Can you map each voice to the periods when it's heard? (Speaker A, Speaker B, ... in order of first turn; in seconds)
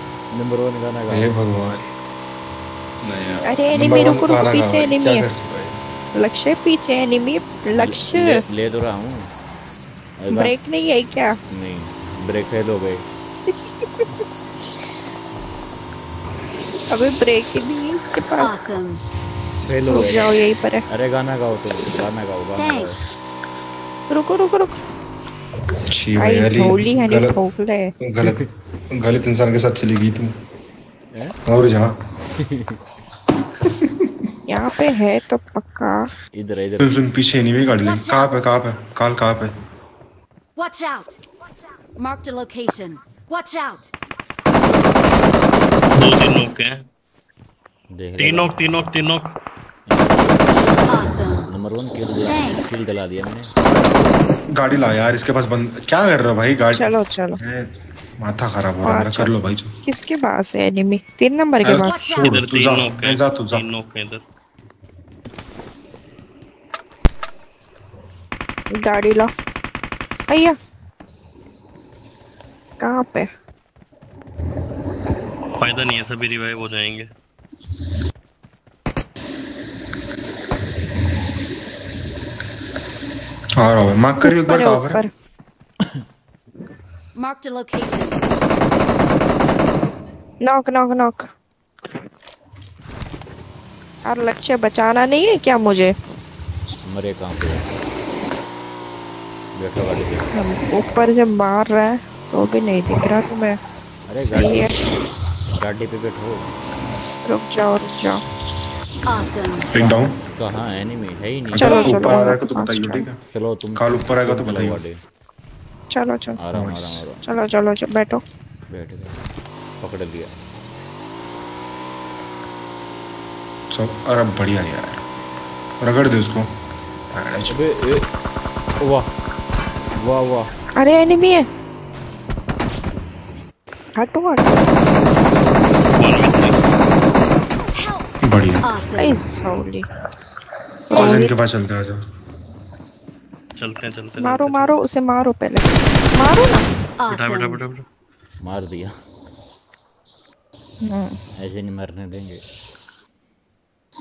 Speaker A: 0.3-1.3, 7.7-9.2, 10.2-10.5, 11.5-13.0, 19.6-20.3, 20.9-23.0, 32.5-32.8, 36.3-36.9, 47.9-48.6, 49.9-53.5, 96.9-97.6, 99.6-100.2, 104.1-104.7, 105.6-106.4, 109.8-111.9, 113.3-115.0, 116.4-117.2, 118.7-119.2, 119.8-120.3, 127.5-128.1, 128.8-129.1, 130.0-130.5, 148.4-148.9, 151.4-152.4
Speaker B: 1.1-1.8, 3.0-5.8, 25.9-27.3, 28.0-30.3, 31.4-31.9, 36.8-39.5, 54.5-59.7, 61.6-63.6, 83.6-85.0, 109.7-110.2, 111.5-113.2, 113.8-114.8, 116.5-117.0, 123.7-125.0, 125.8-126.5, 127.1-127.6, 138.2-138.6, 140.9-142.0
Speaker C: 3.5-5.2, 6.2-8.4, 10.3-11.3, 16.9-18.6, 19.9-20.8, 24.1-24.7, 26.2-27.9, 34.5-36.1, 56.7-57.4, 58.8-59.3, 59.8-62.0, 68.8-69.3, 70.3-70.5, 72.8-73.3, 84.2-85.1, 90.4-91.3, 94.0-95.9, 100.4-103.6, 104.2-104.7, 107.2-108.2, 111.6-113.1, 115.9-116.4, 117.2-118.2, 130.8-131.4, 134.0-134.6, 139.0-139.9, 140.9-141.4, 144.2-146.7, 150.8-151.2
Speaker D: 18.4-19.0, 22.6-23.1, 37.8-38.5, 40.5-41.2, 42.0-43.9, 50.9-51.5, 52.2-52.8, 61.8-62.3, 87.1-88.2, 109.0-109.7, 111.6-112.2, 137.5-138.1, 138.6-139.2, 140.9-141.3, 147.0-147.6
Speaker E: 46.0-46.8, 48.2-49.3, 62.1-64.2, 75.6-77.1, 136.0-136.6, 143.6-144.7, 147.1-147.8